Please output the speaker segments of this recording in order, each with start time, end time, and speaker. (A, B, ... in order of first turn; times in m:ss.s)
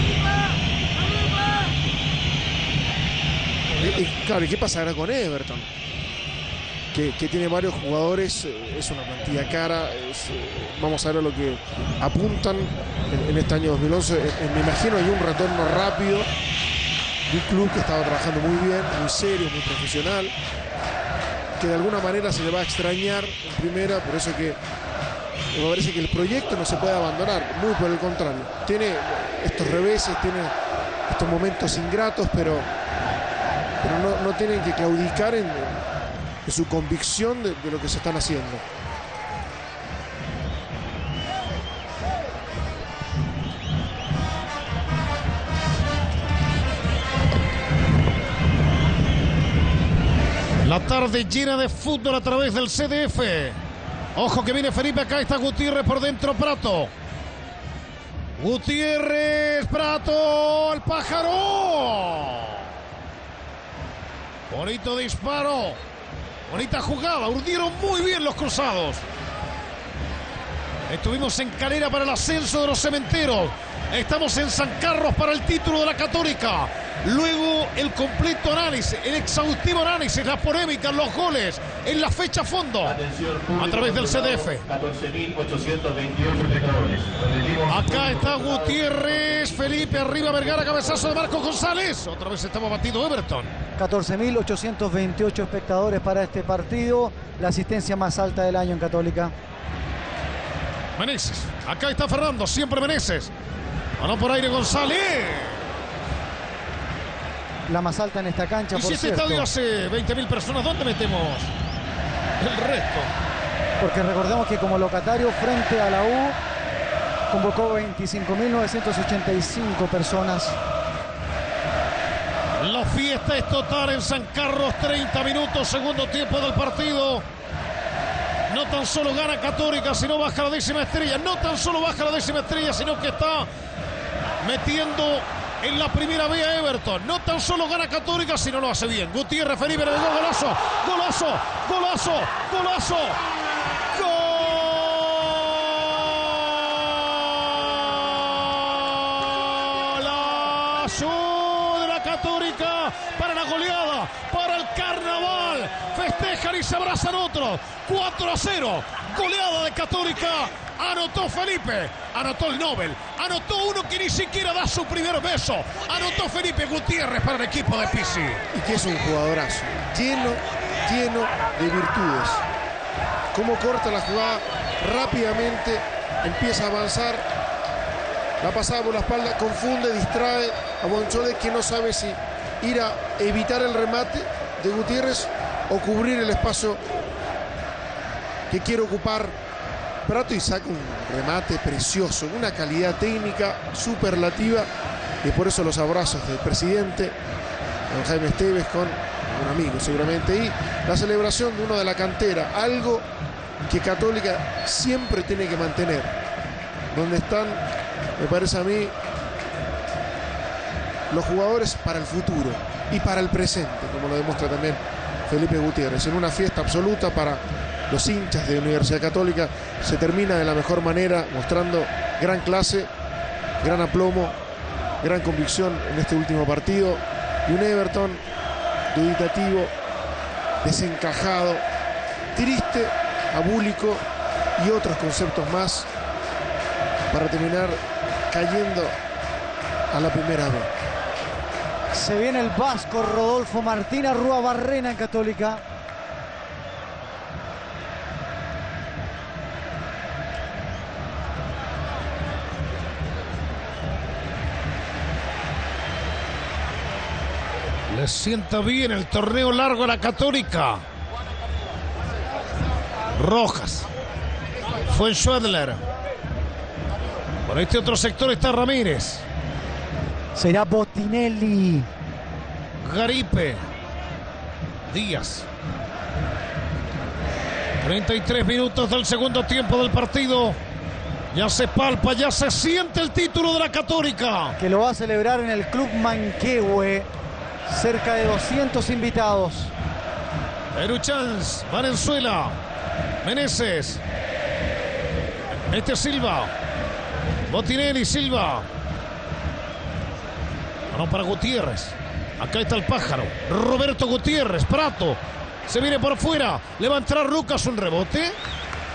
0:03.7-0:05.7 A
0:06.9-0:16.3 A
0:17.3-0:20.3 A
0:21.6-0:24.6 A
0:25.5-0:30.5 A
0:31.1-0:32.7 A
0:33.8-0:35.8 A
0:36.4-0:38.6 A
0:50.6-0:53.6 B
0:54.2-0:56.9 B
0:58.4-1:02.7 B
1:04.5-1:05.8 B
1:06.5-1:09.0 B
1:10.9-1:23.0 B
1:22.8-1:31.3 C
1:23.6-1:24.6 B
1:27.7-1:33.5 B
1:33.8-1:39.3 D
1:41.0-1:43.3 B
1:44.0-1:45.7 B
1:47.7-1:49.5 D
1:48.7-1:51.5 B
1:52.4-1:53.1 B
1:53.8-1:56.4 D
1:57.3-2:00.6 D
2:02.6-2:07.2 B
2:08.5-2:13.5 B
2:14.4-2:23.2 B
2:23.9-2:48.4 B
2:48.5-2:52.4 A
2:53.3-2:57.3 A
2:58.4-3:06.8 A
3:08.5-3:09.4 A
3:10.0-3:14.7 A
3:15.2-3:17.2 A
3:17.9-3:23.1 A
3:23.6-3:26.1 A
3:26.9-3:27.6 A
3:28.2-3:28.9 A
3:31.1-3:42.9 A
3:43.6-3:44.4 A
3:45.0-3:48.2 A
3:48.9-3:49.7 A
3:50.6-3:51.6 A
3:52.3-3:54.0 A
3:54.6-3:55.9 A
3:57.1-3:57.8 A
3:58.3-3:58.9 A
3:59.9-4:00.7 A
4:01.9-4:05.6 D
4:17.9-4:20.8 B
4:23.1-4:23.9 B
4:24.8-4:25.8 B
4:27.4-4:29.2 B
4:30.4-4:31.9 D
4:32.8-4:33.6 B
4:34.9-4:35.4 B
4:37.8-4:40.6 B
4:41.3-4:44.6 B
4:44.6-4:47.1 D
4:47.6-4:49.7 D
4:50.7-4:52.6 B
4:53.2-4:54.0 B
4:55.5-4:56.5 B
4:57.5-4:58.7 B
5:00.9-5:08.4 B